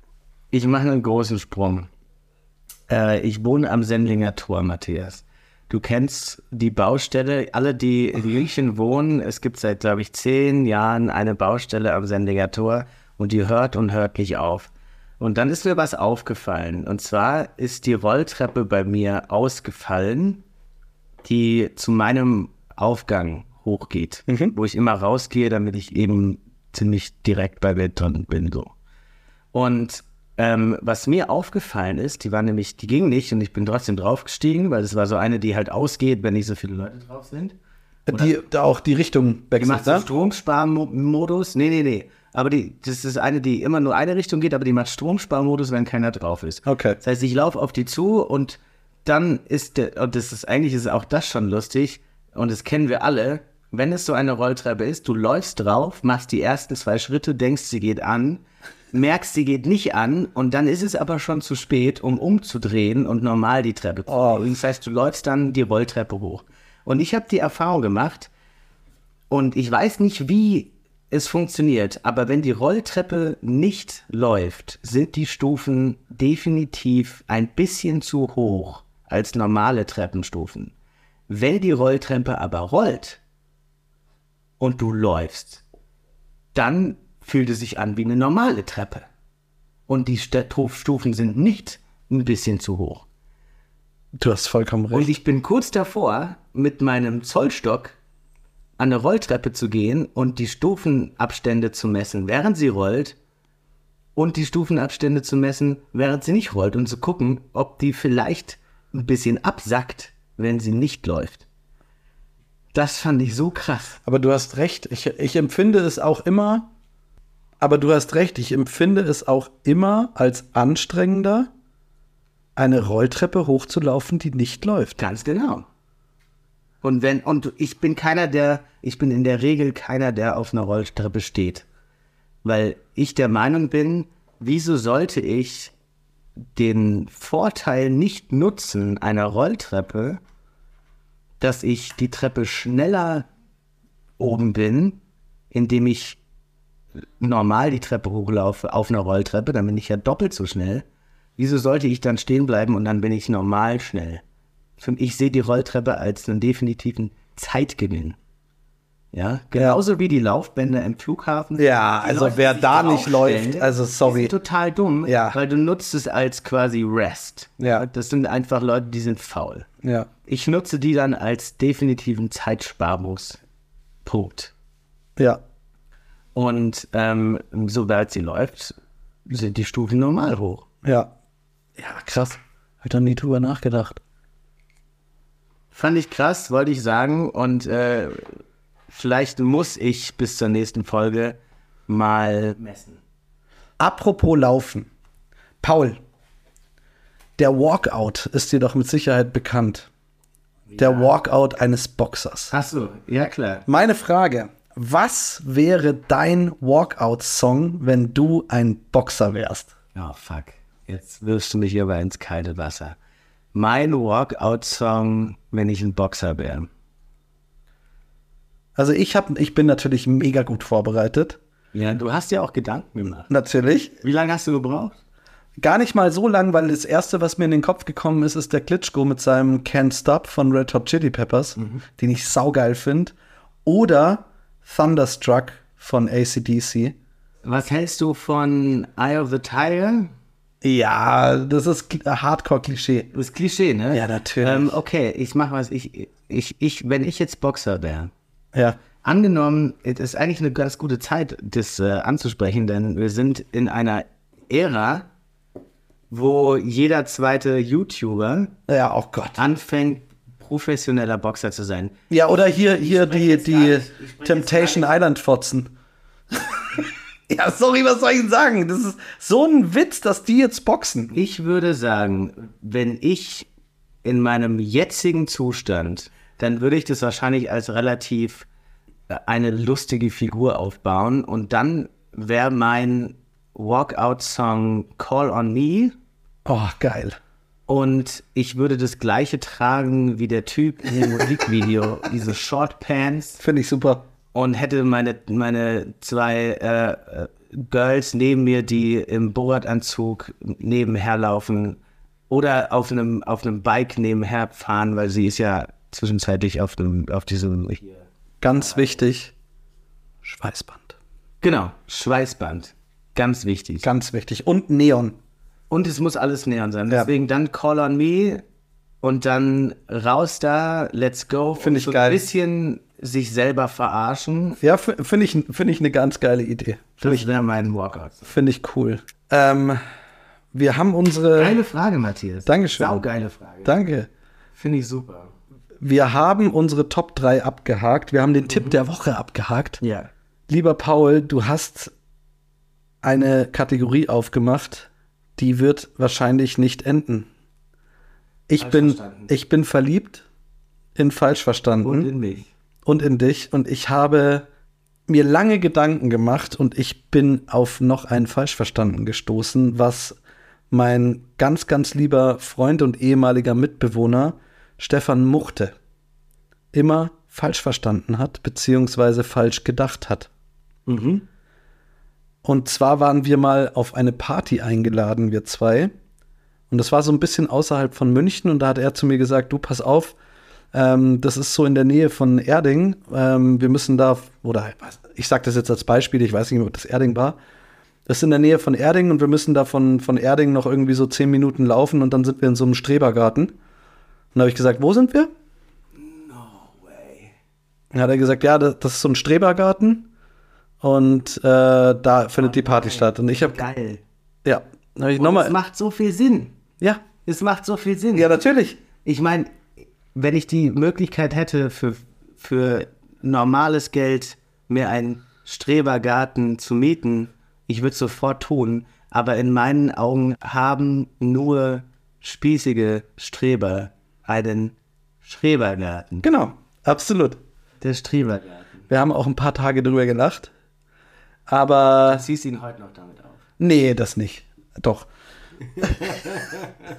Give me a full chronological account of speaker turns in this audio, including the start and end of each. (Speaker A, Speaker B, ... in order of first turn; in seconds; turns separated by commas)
Speaker A: 0.5-1.9, Speaker A: 2.9-20.4, Speaker A: 21.2-28.7, Speaker B: 24.3-24.6, Speaker A: 29.5-37.6, Speaker B: 38.1-40.1, Speaker A: 38.1-38.3, Speaker A: 39.6-68.3, Speaker B: 46.7-47.0, Speaker B: 64.1-64.4, Speaker A: 69.3-80.7, Speaker A: 81.3-83.2, Speaker A: 84.6-85.6, Speaker A: 86.5-89.1, Speaker A: 89.9-93.1, Speaker B: 94.2-95.1, Speaker A: 94.9-98.0, Speaker A: 98.8-103.2, Speaker A: 104.2-111.5, Speaker A: 112.7-114.0, Speaker B: 114.1-116.7, Speaker B: 117.6-121.5, Speaker B: 122.6-125.0, Speaker A: 125.0-125.7, Speaker A: 126.8-131.7, Speaker A: 132.4-135.7, Speaker A: 136.5-140.2, Speaker A: 141.4-143.3, Speaker A: 144.2-145.0, Speaker A: 145.5-146.2, Speaker A: 147.2-150.9, Speaker A: 151.4-154.2, Speaker A: 154.8-158.2, Speaker A: 159.1-169.7, Speaker B: 161.6-164.3, Speaker B: 165.1-165.4, Speaker B: 167.6-167.8, Speaker B: 169.8-170.1, Speaker A: 170.3-173.4, Speaker A: 174.1-174.5, Speaker A: 176.3-178.8, Speaker A: 179.3-180.7, Speaker B: 180.8-181.1, Speaker B: 181.8-184.0, Speaker A: 185.7-191.4, Speaker A: 191.9-193.0, Speaker B: 193.8-194.9, Speaker B: 195.6-196.0, Speaker B: 197.4-199.9, Speaker A: 200.7-201.1, Speaker B: 200.8-202.5, Speaker A: 202.5-203.7, Speaker B: 203.7-209.7, Speaker A: 209.9-213.0, Speaker A: 213.5-216.7, Speaker B: 218.8-221.4, Speaker A: 221.7-223.3, Speaker B: 223.3-224.0, Speaker A: 224.0-225.0, Speaker B: 225.6-233.1, Speaker B: 233.7-237.0, Speaker A: 237.4-240.1, Speaker B: 240.6-243.1, Speaker A: 243.1-248.1, Speaker B: 243.9-244.7, Speaker A: 249.0-255.1, Speaker A: 256.1-258.5, Speaker B: 258.7-259.4, Speaker A: 259.4-262.0, Speaker B: 262.1-265.7, Speaker A: 262.5-264.9, Speaker B: 266.3-271.1, Speaker A: 271.1-273.5, Speaker A: 274.0-278.5, Speaker A: 279.1-286.0, Speaker B: 286.5-287.2, Speaker A: 287.7-293.4, Speaker B: 290.9-291.5, Speaker B: 293.4-294.1, Speaker A: 294.3-301.8, Speaker A: 302.3-308.1, Speaker B: 308.4-309.3, Speaker A: 308.6-308.9, Speaker B: 310.2-311.0, Speaker A: 311.4-313.9, Speaker B: 313.8-315.2, Speaker A: 315.7-318.4, Speaker A: 319.0-324.6, Speaker B: 321.6-322.2, Speaker B: 324.6-327.2, Speaker A: 327.0-328.3, Speaker B: 328.3-329.8, Speaker B: 330.5-331.6, Speaker A: 331.4-333.7, Speaker B: 332.5-333.1, Speaker B: 333.6-334.1, Speaker A: 334.6-335.3, Speaker B: 335.8-339.8, Speaker A: 338.5-338.8, Speaker A: 339.8-340.1, Speaker B: 340.5-341.9, Speaker B: 343.0-347.3, Speaker B: 348.5-350.2, Speaker A: 348.6-349.3, Speaker B: 351.0-352.1, Speaker A: 351.8-352.5, Speaker B: 352.9-354.5, Speaker B: 355.1-360.2, Speaker B: 360.7-365.8, Speaker B: 366.7-370.3, Speaker A: 370.9-371.2, Speaker B: 372.4-375.9, Speaker B: 376.7-380.1, Speaker B: 380.7-387.4, Speaker B: 388.1-393.5, Speaker B: 394.4-395.3, Speaker A: 396.0-397.4, Speaker B: 397.9-400.1, Speaker B: 400.8-403.7, Speaker A: 402.4-404.0, Speaker B: 404.4-405.5, Speaker A: 405.2-406.6, Speaker A: 407.2-408.3, Speaker B: 408.1-408.8, Speaker A: 409.0-426.3, Speaker B: 426.2-427.4, Speaker A: 427.8-428.9, Speaker B: 428.9-430.5, Speaker B: 431.5-432.2, Speaker A: 432.1-433.4, Speaker B: 433.6-435.1, Speaker A: 435.8-436.9